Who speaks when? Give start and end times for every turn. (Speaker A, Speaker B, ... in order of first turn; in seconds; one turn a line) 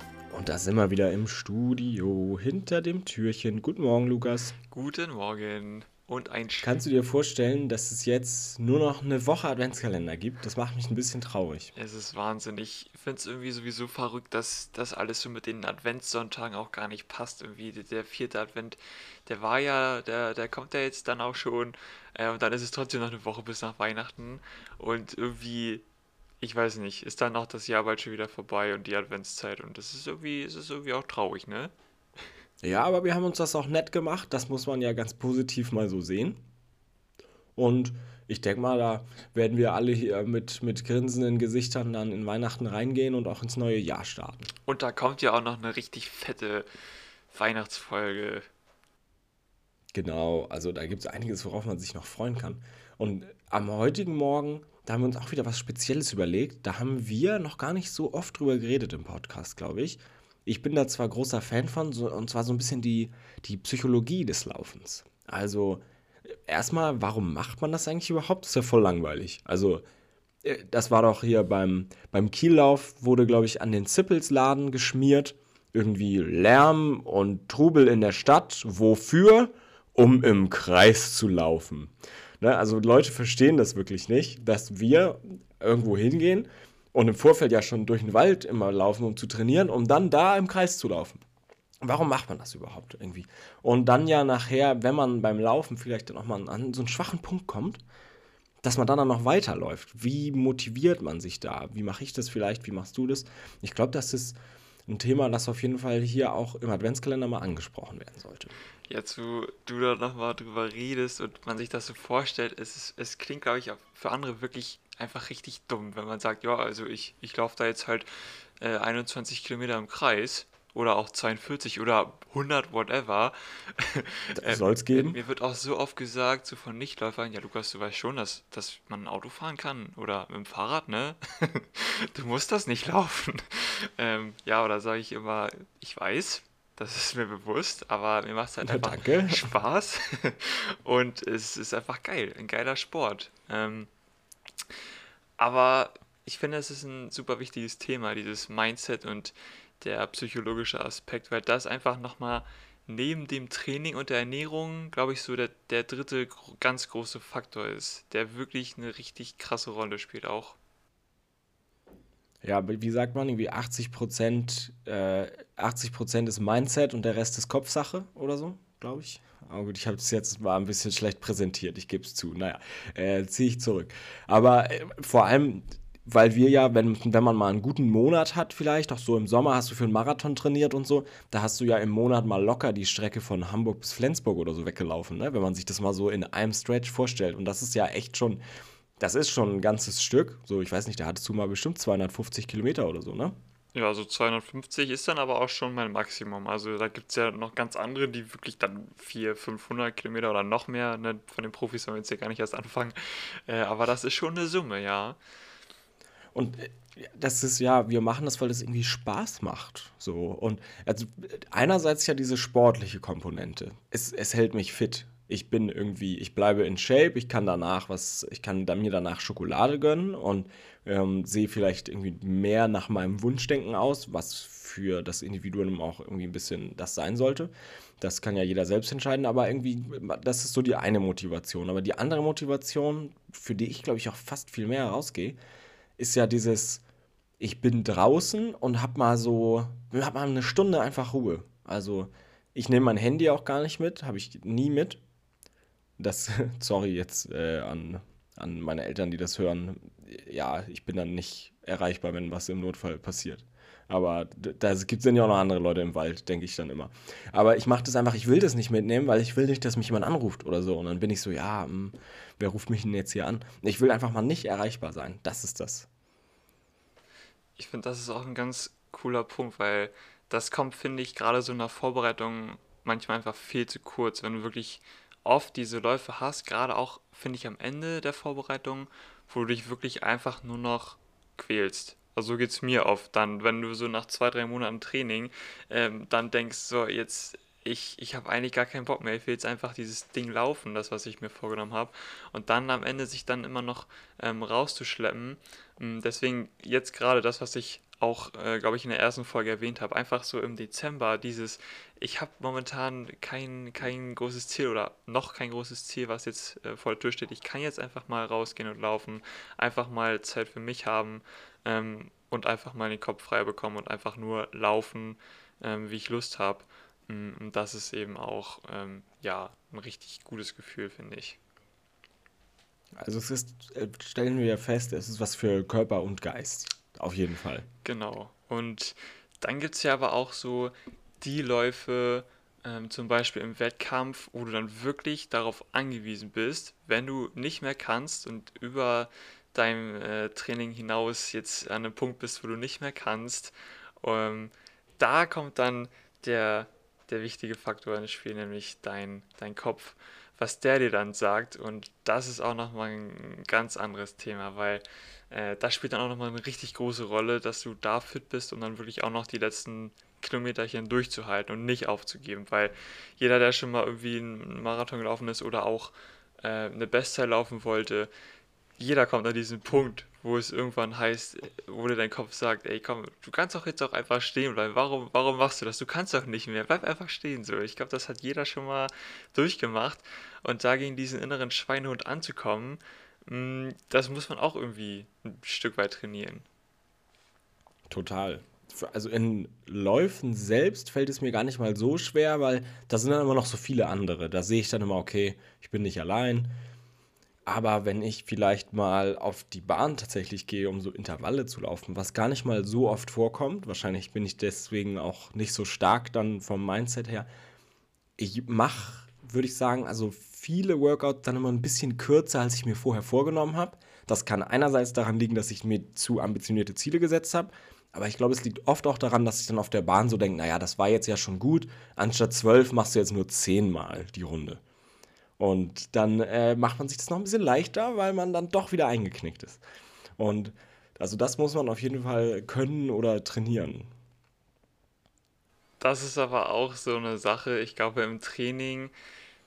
Speaker A: 0.3-4.5
Speaker B: 4.7-6.7
Speaker A: 6.6-11.7
Speaker B: 11.8-25.9
Speaker B: 26.4-31.7
Speaker A: 32.6-36.4
Speaker A: 37.6-44.5
Speaker B: 44.7-46.7
Speaker B: 47.3-48.5
Speaker A: 49.9-69.8
Speaker A: 70.4-91.2
Speaker A: 91.8-97.8
Speaker A: 98.6-108.5
Speaker B: 108.9-118.1
Speaker B: 118.6-143.9
Speaker A: 124.3-125.2
Speaker A: 138.6-139.5
Speaker B: 145.4-160.6
Speaker A: 162.4-188.4
Speaker A: 189.0-193.3
Speaker B: 193.7-205.2
Speaker A: 206.3-235.4
Speaker A: 236.0-236.8
Speaker A: 237.4-245.0
Speaker A: 246.0-265.9
Speaker B: 267.6-321.4
Speaker A: 323.0-327.7
Speaker B: 327.8-368.1
Speaker B: 368.8-386.5
Speaker A: 387.9-396.5
Speaker A: 397.5-407.3
Speaker A: 408.2-424.6
Speaker A: 425.4-429.6
Speaker A: 430.2-433.9
Speaker B: 435.8-438.9